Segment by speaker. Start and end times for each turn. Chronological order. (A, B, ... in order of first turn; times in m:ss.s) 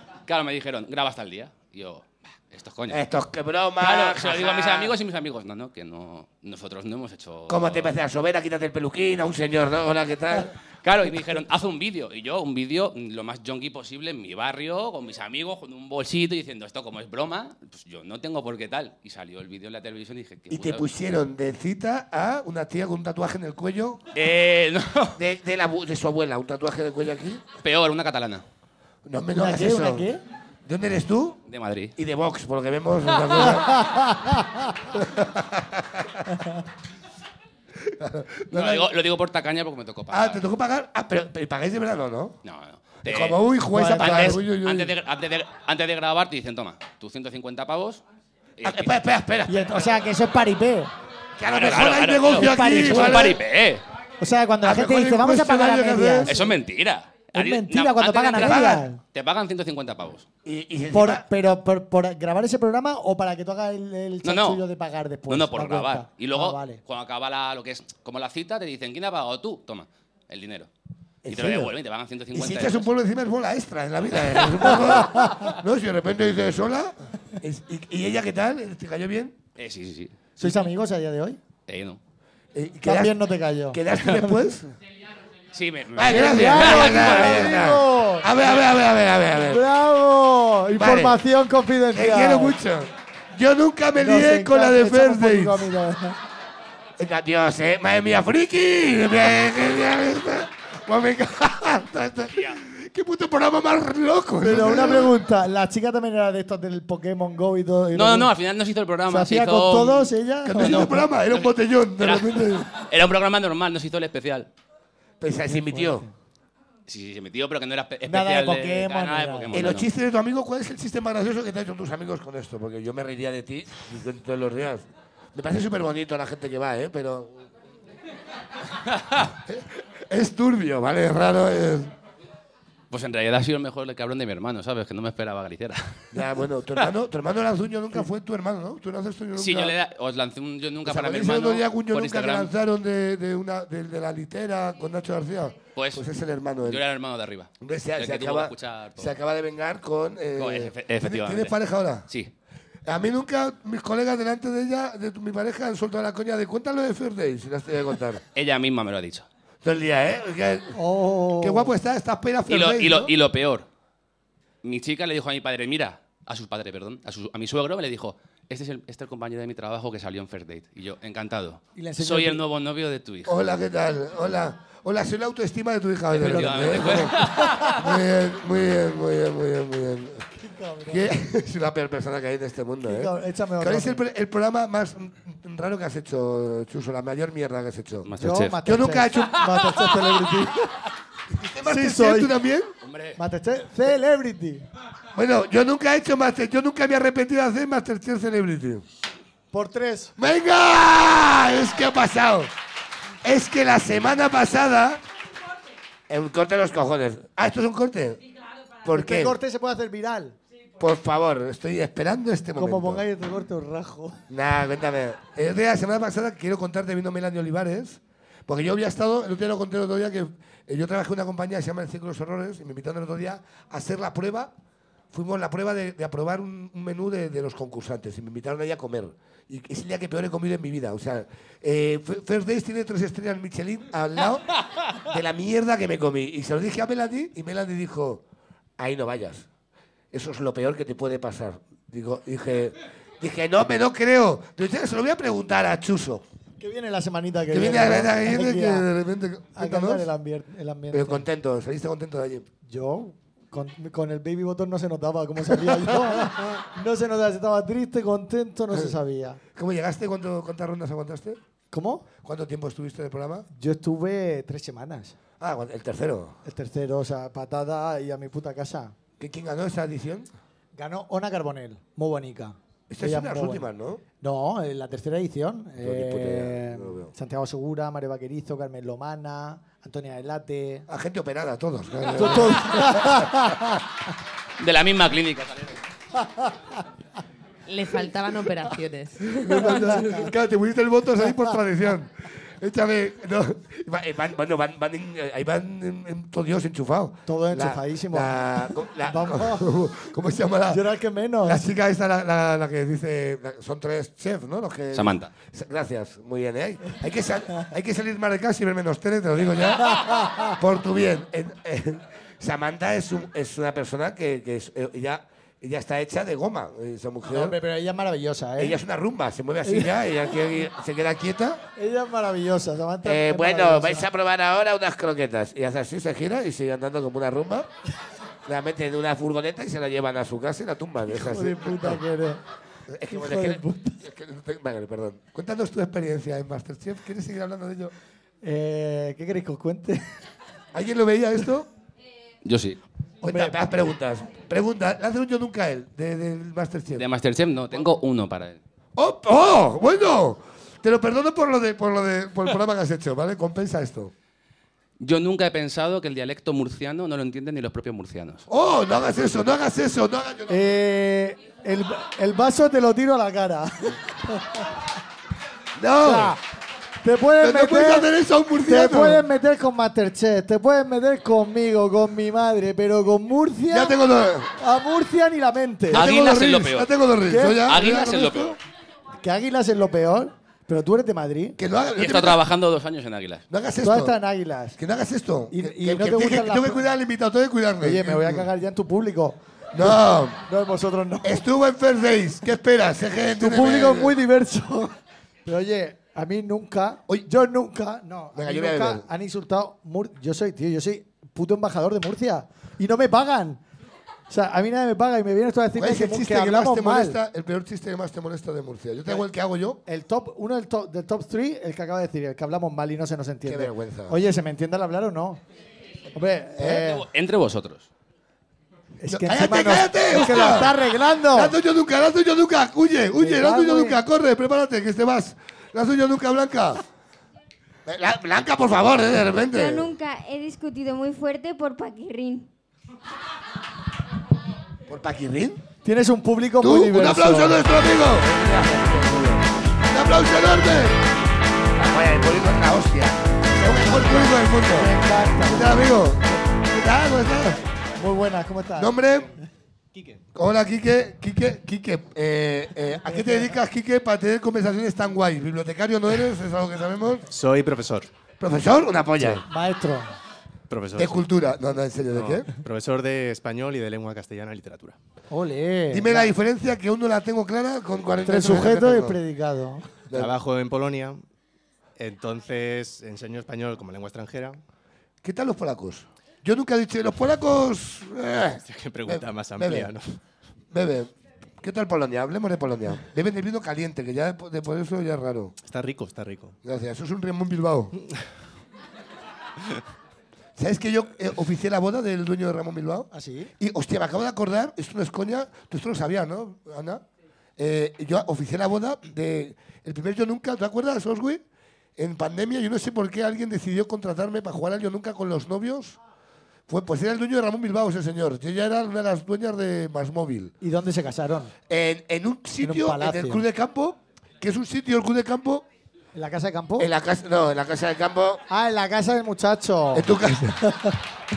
0:00.3-0:03.0 A
0:02.9-0:05.0 B
0:03.8-0:08.0 A
0:07.5-0:10.6 B
0:10.8-0:20.9 A
0:20.5-0:24.0 B
0:24.1-0:25.2 A
0:25.2-0:27.5 B
0:27.6-0:28.4 A
0:29.1-0:30.1 B
0:29.3-0:30.2 C
0:30.7-0:31.4 B
0:31.5-0:31.9 A
0:32.0-0:33.9 B
0:33.4-0:34.4 C
0:34.9-0:36.3 B
0:37.9-0:38.9 B
0:38.5-0:40.4 A
0:40.1-0:42.4 B
0:42.4-0:48.0 A
0:43.0-0:45.0 B
0:43.7-0:44.4 C
0:48.6-0:49.0 A
0:48.6-0:49.8 B
0:49.5-0:50.9 C
0:51.4-0:53.4 B
0:51.5-0:53.8 A
0:52.3-0:53.4 C
0:54.2-0:56.5 C
0:54.6-0:56.4 B
0:56.3-1:00.3 A
0:57.3-0:59.0 C
0:58.3-0:58.8 B
1:00.4-1:01.3 B
1:00.9-1:06.8 C
1:04.2-1:04.6 A
1:05.3-1:10.7 A
1:11.2-1:11.7 B
1:11.3-1:12.9 A
1:12.3-1:19.4 B
1:14.2-1:15.0 A
1:19.6-1:20.6 A
1:20.4-1:21.4 C
1:21.7-1:22.0 A
1:22.6-1:23.2 B
1:22.8-1:24.4 C
1:23.7-1:24.8 B
1:25.5-1:27.7 A
1:26.0-1:29.6 B
1:26.0-1:28.3 C
1:29.4-1:32.6 C
1:30.8-1:31.2 B
1:31.9-1:35.7 B
1:34.0-1:36.2 C
1:37.0-1:45.2 B
1:44.4-1:48.3 C
1:47.9-1:54.5 A
1:49.1-1:51.0 C
1:50.4-1:52.7 B
1:55.2-1:56.1 B
1:55.7-1:56.1 C
1:56.9-1:59.9 A
1:58.0-1:59.7 C
1:59.5-2:07.5 B
2:08.9-2:09.3 A
2:09.4-2:11.9 B
2:12.9-2:16.2 A
2:16.1-2:19.8 B
2:19.4-2:22.5 A
2:20.8-2:26.8 B
2:25.8-2:26.0 A
2:26.6-2:29.1 A
2:27.6-2:32.1 B
2:30.4-2:31.6 A
2:32.9-2:38.2 B
2:38.3-2:39.3 A
2:39.6-2:40.8 B
2:40.8-2:41.7 C
2:41.4-2:43.1 B
2:42.5-2:43.7 A
2:44.6-2:53.4 A
2:51.8-2:52.4 C
2:53.3-3:00.3 B
2:56.1-2:57.8 A
2:56.2-2:57.7 C
3:00.4-3:01.0 C
3:00.9-3:09.5 B
3:02.8-3:04.0 C
3:08.0-3:08.6 A
3:08.2-3:10.7 C
3:11.3-3:12.7 B
3:11.6-3:12.3 C
3:12.8-3:13.2 A
3:13.2-3:14.6 C
3:15.1-3:18.8 B
3:19.5-3:20.1 C
3:20.2-3:22.5 B
3:23.2-3:25.0 B
3:26.1-3:28.2 B
3:28.8-3:29.4 B
3:28.9-3:30.4 C
3:30.8-3:33.0 B
3:32.6-3:34.2 C
3:34.3-3:44.5 B
3:45.1-3:58.2 B
3:58.8-3:59.5 B
4:00.1-4:06.2 B
4:06.6-4:08.9 C
4:07.5-4:10.1 B
4:09.6-4:11.2 C
4:10.9-4:12.5 B
4:12.7-4:19.4 C
4:15.8-4:16.3 B
4:19.6-4:21.4 B
4:21.7-4:22.2 C
4:22.2-4:23.5 B
4:23.5-4:25.2 C
4:25.4-4:26.4 B
4:26.5-4:29.0 C
4:29.2-4:30.3 B
4:30.8-4:40.9 C
4:32.9-4:34.0 B
4:35.8-4:37.1 B
4:40.9-4:43.8 B
4:42.1-4:43.8 C
4:44.6-4:45.8 A
4:47.7-4:49.8 D
4:49.4-5:00.8 B
4:49.6-4:50.2 C
4:57.3-4:59.7 C
5:00.7-5:01.6 C
5:01.4-5:17.6 B
5:04.9-5:05.3 A
5:09.9-5:10.5 C
5:17.3-5:18.8 C
5:18.6-5:21.6 B
5:19.6-5:19.9 C
5:21.8-5:24.1 C
5:23.0-5:27.7 B
5:28.5-5:32.0 B
5:31.1-5:32.4 C
5:32.9-5:37.9 B
5:33.1-5:34.0 C
5:38.4-5:40.0 C
5:40.7-5:41.7 B
5:42.4-5:42.8 A
5:43.2-5:47.1 B
5:43.2-5:43.6 C
5:46.9-5:48.6 A
5:49.0-5:54.1 B
5:55.0-5:58.5 A
5:58.5-6:00.6 B
6:00.5-6:04.7 C
6:05.8-6:06.4 B
6:06.0-6:06.4 C
6:07.0-6:08.1 C
6:07.4-6:09.2 B
6:08.6-6:14.0 C
6:13.7-6:14.6 B
6:14.6-6:16.0 C
6:15.9-6:18.6 B
6:15.9-6:16.9 A
6:17.3-6:17.6 C
6:17.6-6:18.6 A
6:19.2-6:21.6 C
6:21.6-6:22.4 B
6:22.0-6:23.4 A
6:23.5-6:24.2 B
6:23.8-6:24.8 C
6:24.8-6:28.5 B
6:25.5-6:26.9 C
6:27.8-6:31.4 C
6:29.7-6:30.5 B
6:31.2-6:34.2 B
6:33.4-6:35.0 C
6:35.5-6:43.6 C
6:38.4-6:39.1 B
6:44.3-6:47.2 C
6:45.8-6:49.8 B
6:49.9-6:55.4 C
6:53.5-6:54.2 B
6:56.2-6:57.1 C
6:56.6-6:56.9 B
6:56.8-6:57.9 A
6:59.0-7:01.5 C
6:59.1-7:00.8 B
7:01.3-7:06.8 B
7:03.2-7:04.0 C
7:07.9-7:09.9 B
7:09.5-7:12.5 E
7:14.9-7:15.6 B
7:15.8-7:17.6 C
7:16.6-7:21.0 B
7:21.7-7:27.6 B
7:23.6-7:25.8 C
7:28.0-7:28.9 C
7:28.8-7:29.3 B
7:29.9-7:30.2 F
7:30.3-7:37.3 B
7:33.1-7:33.5 C
7:37.3-7:38.1 F
7:38.4-7:39.5 B
7:39.4-7:40.1 C
7:40.7-7:41.3 F
7:41.0-7:42.5 B
7:42.1-7:45.0 F
7:45.3-7:46.3 C
7:45.9-7:49.2 B
7:48.2-7:50.1 C
7:50.1-7:50.4 B
7:50.1-7:51.2 F
7:52.0-7:54.6 F
7:55.2-7:59.9 B
7:58.6-8:00.2 F
8:00.7-8:05.6 B
8:05.6-8:06.6 F
8:06.6-8:07.9 B
8:10.6-8:17.0 B
8:13.1-8:13.5 C
8:17.6-8:21.4 B
8:22.0-8:26.0 B
8:26.7-8:30.5 B
8:30.6-8:31.5 C
8:31.7-8:35.6 B
8:32.6-8:33.4 C
8:36.1-8:36.9 C
8:36.8-8:38.4 B
8:38.5-8:40.1 C
8:39.9-8:40.6 B
8:40.6-8:41.0 C